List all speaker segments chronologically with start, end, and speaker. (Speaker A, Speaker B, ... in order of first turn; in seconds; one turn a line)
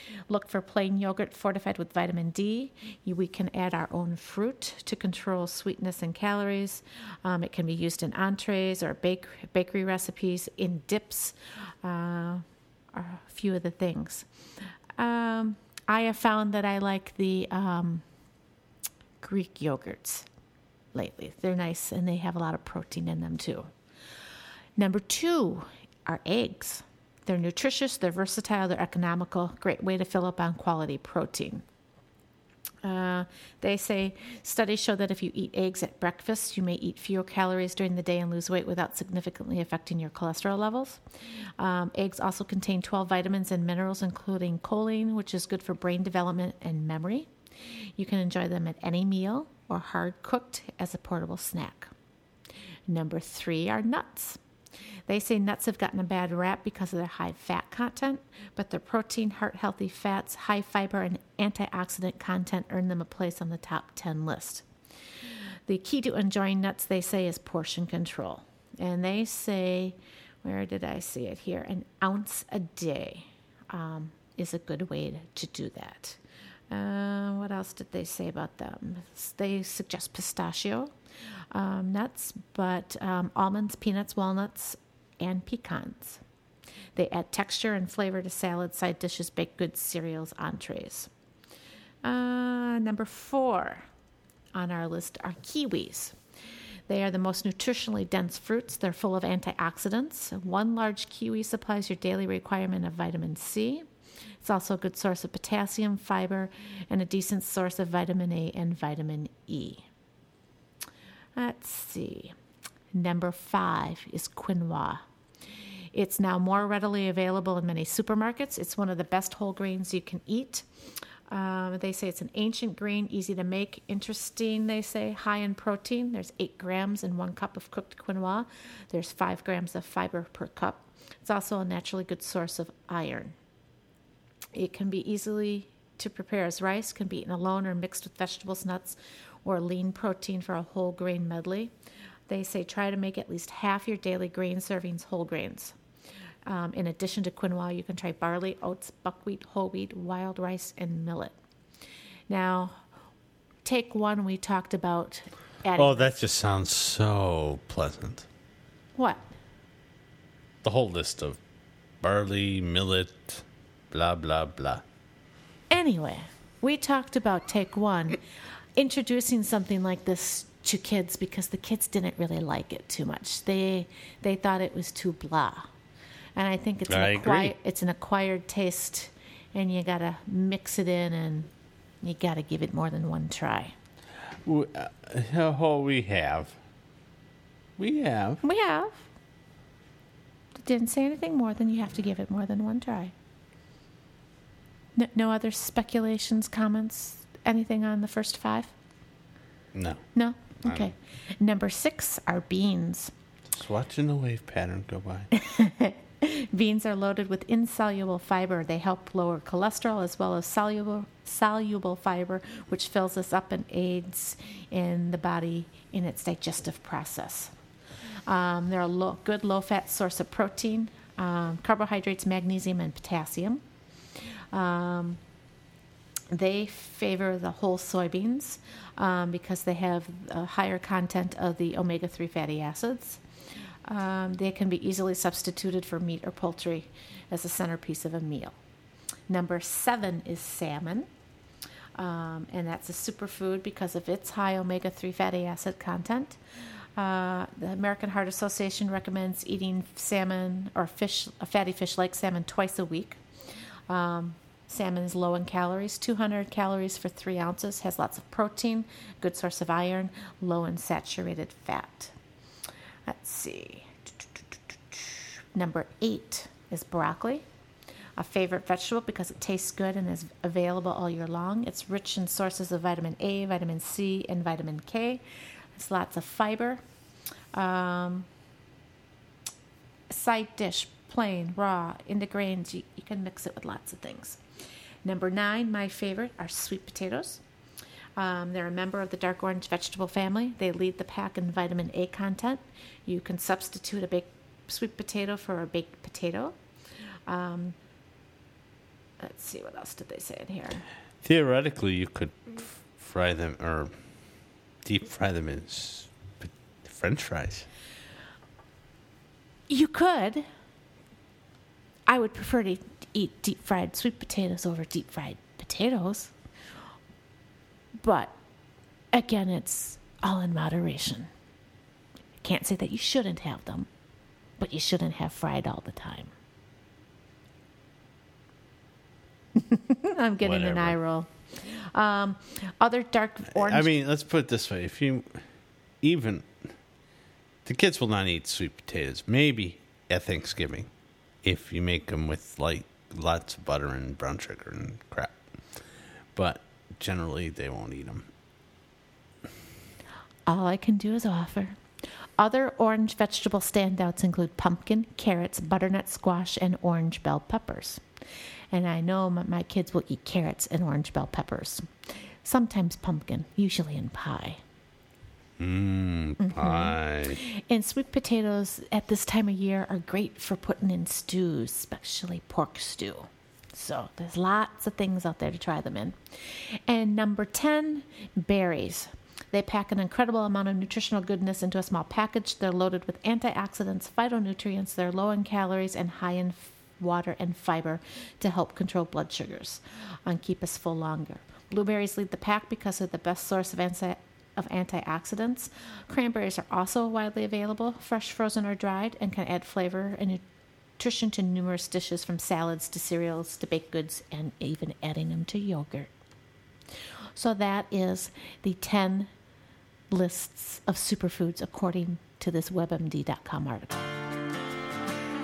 Speaker A: 0.3-14.3
Speaker A: 15.0-18.0
Speaker A: 19.2-20.3
Speaker A: 20.9-23.7
Speaker A: 24.8-31.6
Speaker A: 32.8-41.0
Speaker A: 41.6-51.9
Speaker A: 52.9-54.4
Speaker A: 55.1-64.7
Speaker A: 65.7-76.2
Speaker A: 76.7-80.9
Speaker A: 81.5-86.2
Speaker A: 87.0-91.1
Speaker A: 92.0-93.9
Speaker A: 94.5-96.2
Speaker A: 96.9-103.8
Speaker A: 104.4-109.9
Speaker A: 111.4-112.3
Speaker A: 112.9-115.0
Speaker A: 115.9-120.7
Speaker A: 121.3-133.4
Speaker A: 134.5-141.7
Speaker A: 142.3-145.8
Speaker A: 146.5-151.4
Speaker A: 152.3-152.8
Speaker A: 153.6-156.2
Speaker B: 155.8-158.3
Speaker A: 159.0-159.3
Speaker B: 160.6-161.4
Speaker B: 162.0-164.8
Speaker A: 165.7-168.2
Speaker A: 168.8-175.7
Speaker A: 176.4-181.5
Speaker B: 176.9-177.5
Speaker A: 182.0-183.8
Speaker B: 184.4-186.6
Speaker B: 187.8-188.4
Speaker A: 188.4-189.1
Speaker A: 190.6-193.1
Speaker A: 195.0-198.7
Speaker B: 199.7-200.1
Speaker A: 200.1-203.1
Speaker B: 200.6-200.9
Speaker B: 203.5-205.3
Speaker A: 205.3-217.5
Speaker A: 218.3-223.6
Speaker A: 224.5-225.2
Speaker A: 226.3-233.2
Speaker A: 233.8-238.6
Speaker A: 239.3-241.1
Speaker A: 242.0-246.4
Speaker A: 247.0-253.2
Speaker A: 253.9-262.1
Speaker A: 263.1-264.1
Speaker A: 264.9-267.4
Speaker A: 268.2-275.2
Speaker A: 275.8-276.8
Speaker A: 277.6-278.3
Speaker A: 280.1-284.4
Speaker A: 285.0-287.4
Speaker A: 288.2-296.6
Speaker A: 297.3-297.8
Speaker A: 299.2-300.9
Speaker B: 301.2-304.0
Speaker B: 304.8-307.7
Speaker A: 309.7-310.5
Speaker A: 312.1-316.3
Speaker A: 318.0-318.3
Speaker A: 319.1-321.3
Speaker A: 322.4-323.9
Speaker A: 324.6-326.3
Speaker A: 329.6-333.9
Speaker B: 330.4-331.0
Speaker B: 333.6-335.4
Speaker B: 336.0-336.7
Speaker B: 337.6-340.9
Speaker B: 341.4-348.3
Speaker A: 350.5-351.8
Speaker A: 352.4-358.0
Speaker A: 358.7-361.9
Speaker A: 362.4-364.6
Speaker B: 365.6-367.4
Speaker A: 366.4-400.4
Speaker A: 401.0-406.1
Speaker A: 407.4-409.3
Speaker A: 410.1-414.1